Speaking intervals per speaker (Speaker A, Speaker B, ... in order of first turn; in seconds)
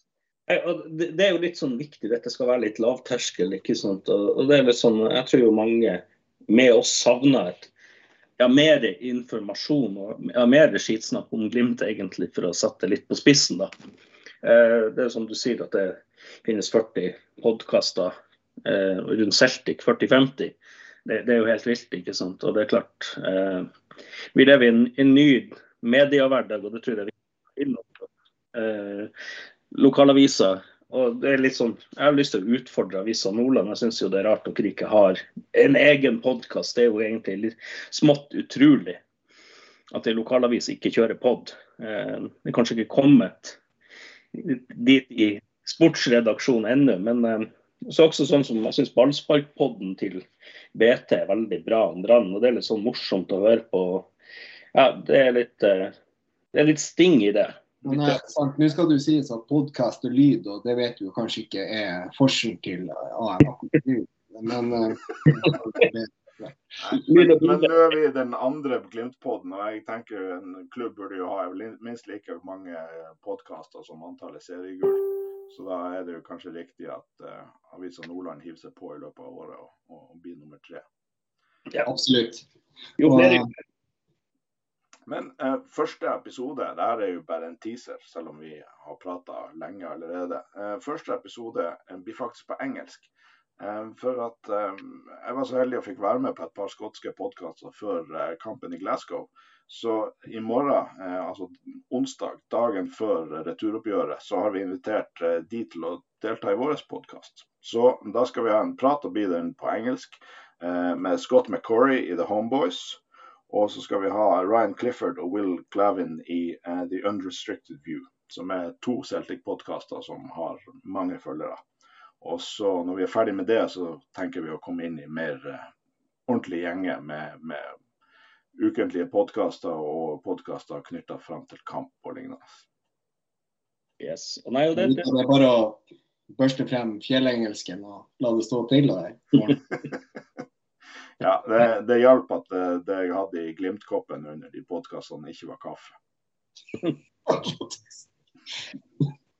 Speaker A: 0.5-7.7, 8.4-13.7, 14.4-18.1, 18.6-23.7, 24.3-29.1, 29.7-39.0, 39.9-43.6, 44.3-54.1, 54.7-55.9, 56.5-58.2, 66.9-67.7, 83.0-83.5, 134.0-135.1
Speaker B: 57.8-66.6, 81.8-82.4, 83.0-83.4, 134.8-135.8, 136.3-139.6, 147.3-147.8
Speaker C: 66.8-80.8, 85.1-121.6, 122.2-125.7, 126.3-127.7, 128.6-132.6, 141.2-145.9